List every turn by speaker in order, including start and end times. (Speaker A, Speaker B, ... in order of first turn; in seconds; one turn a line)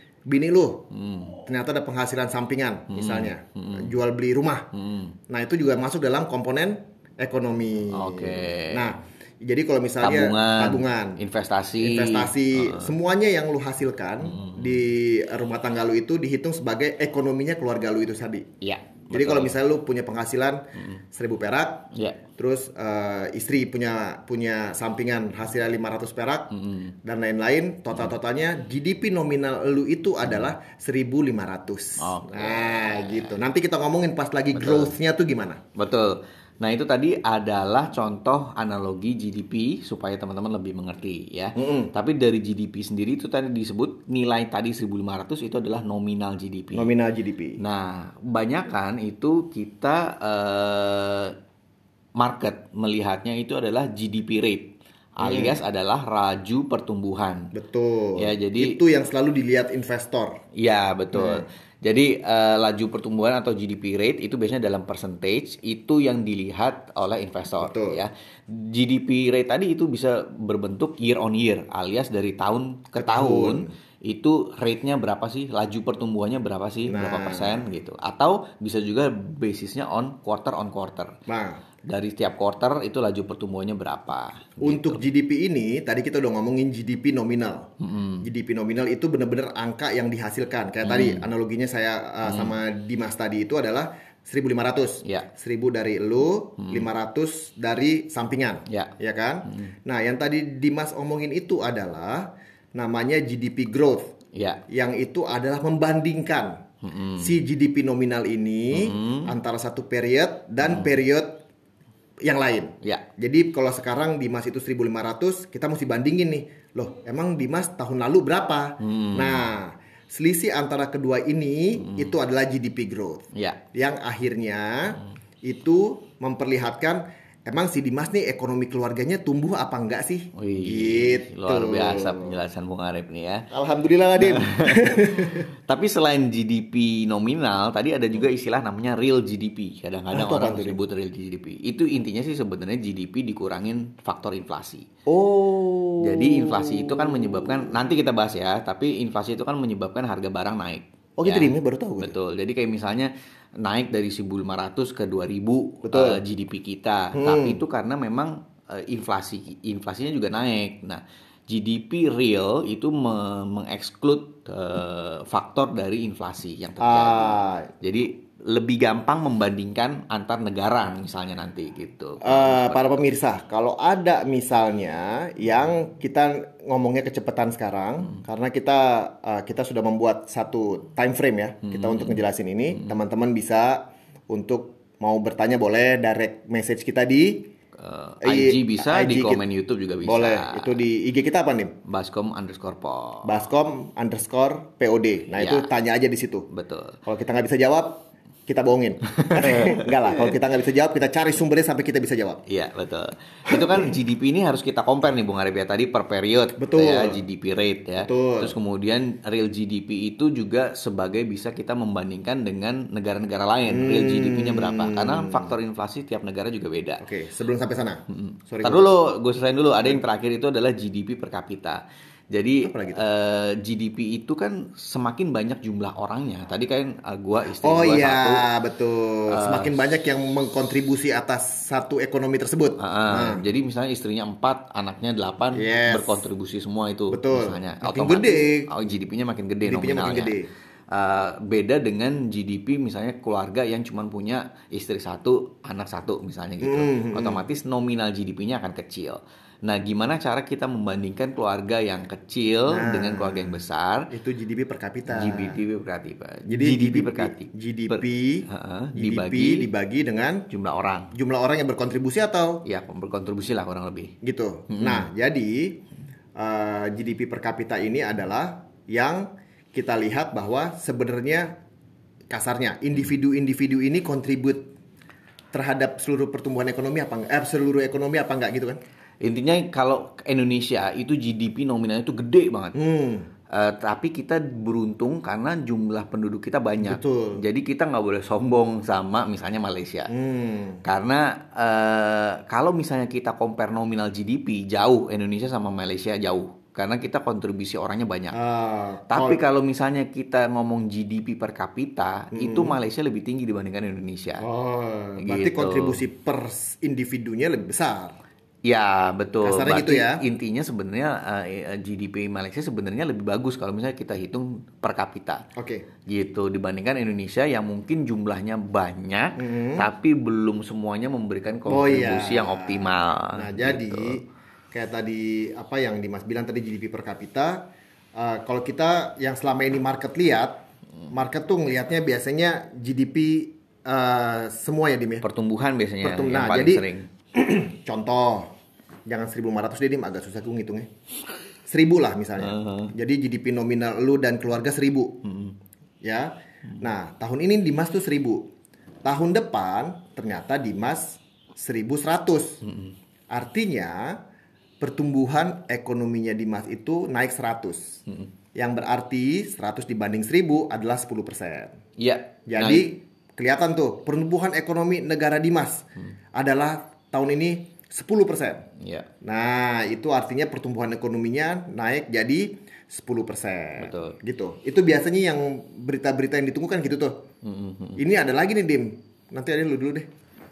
Speaker A: 0.3-0.8
Speaker B: 0.9-1.4
Speaker A: 1.5-4.7
Speaker B: 2.9-3.9
Speaker B: 4.7-5.2
Speaker A: 5.3-11.2
Speaker B: 7.9-8.9
Speaker B: 10.0-12.9
Speaker A: 11.8-18.5
Speaker B: 14.2-14.8
Speaker B: 18.6-19.6
Speaker A: 19.1-20.6
Speaker A: 21.1-26.5
Speaker B: 21.9-22.2
Speaker B: 26.5-26.9
Speaker A: 27.0-35.6
Speaker B: 32.0-33.4
Speaker B: 34.5-34.9
Speaker B: 35.8-46.9
Speaker A: 41.6-41.9
Speaker A: 46.7-47.6
Speaker B: 47.6-51.4
Speaker B: 52.2-57.5
Speaker A: 55.2-55.6
Speaker A: 57.5-60.4
Speaker B: 58.2-58.8
Speaker B: 60.5-81.2
Speaker A: 61.1-61.5
Speaker A: 67.6-68.0
Speaker A: 73.0-73.7
Speaker A: 76.9-77.7
Speaker A: 81.3-81.6
Speaker B: 81.8-85.0
Speaker A: 84.6-87.7
Speaker B: 87.8-88.3
Speaker A: 88.2-104.1
Speaker B: 90.8-91.3
Speaker B: 92.2-92.5
Speaker B: 98.7-98.9
Speaker B: 104.3-104.6
Speaker A: 104.7-106.6
Speaker B: 106.8-107.3
Speaker A: 107.2-111.4
Speaker B: 108.7-109.3
Speaker B: 110.6-110.9
Speaker A: 112.2-132.3
Speaker B: 118.8-119.5
Speaker B: 121.8-122.1
Speaker B: 123.3-123.6
Speaker B: 130.3-133.5
Speaker A: 133.5-135.4
Speaker B: 134.2-144.9
Speaker A: 140.1-140.8
Speaker A: 145.1-147.7
Speaker B: 146.0-153.1
Speaker A: 151.2-152.2
Speaker B: 153.6-173.0
Speaker A: 155.8-156.2
Speaker A: 157.1-157.6
Speaker A: 166.8-167.7
Speaker A: 172.2-187.5
Speaker B: 181.7-182.2
Speaker B: 187.8-190.8
Speaker A: 188.2-189.4
Speaker A: 190.0-191.8
Speaker B: 191.9-193.4
Speaker A: 193.2-196.5
Speaker B: 195.4-195.7
Speaker B: 196.5-197.0
Speaker A: 197.1-202.4
Speaker B: 199.2-200.3
Speaker B: 202.5-217.1
Speaker A: 203.5-203.9
Speaker A: 206.6-207.2
Speaker A: 208.0-208.6
Speaker A: 213.7-215.6
Speaker A: 217.0-218.9
Speaker B: 218.1-221.8
Speaker B: 222.3-228.5
Speaker A: 222.6-223.0
Speaker A: 227.6-233.5
Speaker B: 229.3-229.8
Speaker B: 232.8-240.4
Speaker A: 235.5-236.2
Speaker A: 237.1-238.7
Speaker A: 239.6-240.5
Speaker B: 240.9-254.1
Speaker A: 246.6-247.4
Speaker A: 252.7-255.6
Speaker B: 255.1-259.7
Speaker A: 256.5-260.4
Speaker B: 260.5-261.1
Speaker A: 261.1-262.6
Speaker B: 262.6-264.1
Speaker A: 264.2-265.8
Speaker B: 264.7-265.1
Speaker A: 266.4-271.5
Speaker A: 272.3-274.7
Speaker A: 275.5-278.8
Speaker B: 279.2-282.8
Speaker A: 282.7-283.3
Speaker B: 283.5-290.1
Speaker A: 286.8-287.4
Speaker A: 290.1-290.8
Speaker B: 290.8-298.4
Speaker A: 298.3-299.4
Speaker B: 299.1-304.4
Speaker A: 302.3-302.8
Speaker A: 304.4-308.1
Speaker B: 305.2-306.0
Speaker B: 308.6-315.4
Speaker A: 309.4-310.2
Speaker A: 315.6-315.8
Speaker B: 316.1-324.2
Speaker A: 319.4-319.9
Speaker A: 321.7-327.6
Speaker A: 328.2-330.6
Speaker A: 331.1-335.2
Speaker B: 335.2-337.1
Speaker A: 336.0-336.9
Speaker A: 337.4-338.5
Speaker A: 339.1-340.9
Speaker A: 341.7-345.2
Speaker B: 342.4-342.9
Speaker B: 345.2-345.6
Speaker A: 346.0-348.4
Speaker A: 349.1-352.6
Speaker B: 352.6-352.9
Speaker A: 353.3-354.2
Speaker A: 354.8-358.0
Speaker A: 358.6-361.8
Speaker B: 362.0-362.9
Speaker A: 362.5-368.6
Speaker B: 368.8-369.1
Speaker A: 369.2-377.2
Speaker B: 373.8-374.2
Speaker B: 377.4-378.0
Speaker A: 378.0-380.1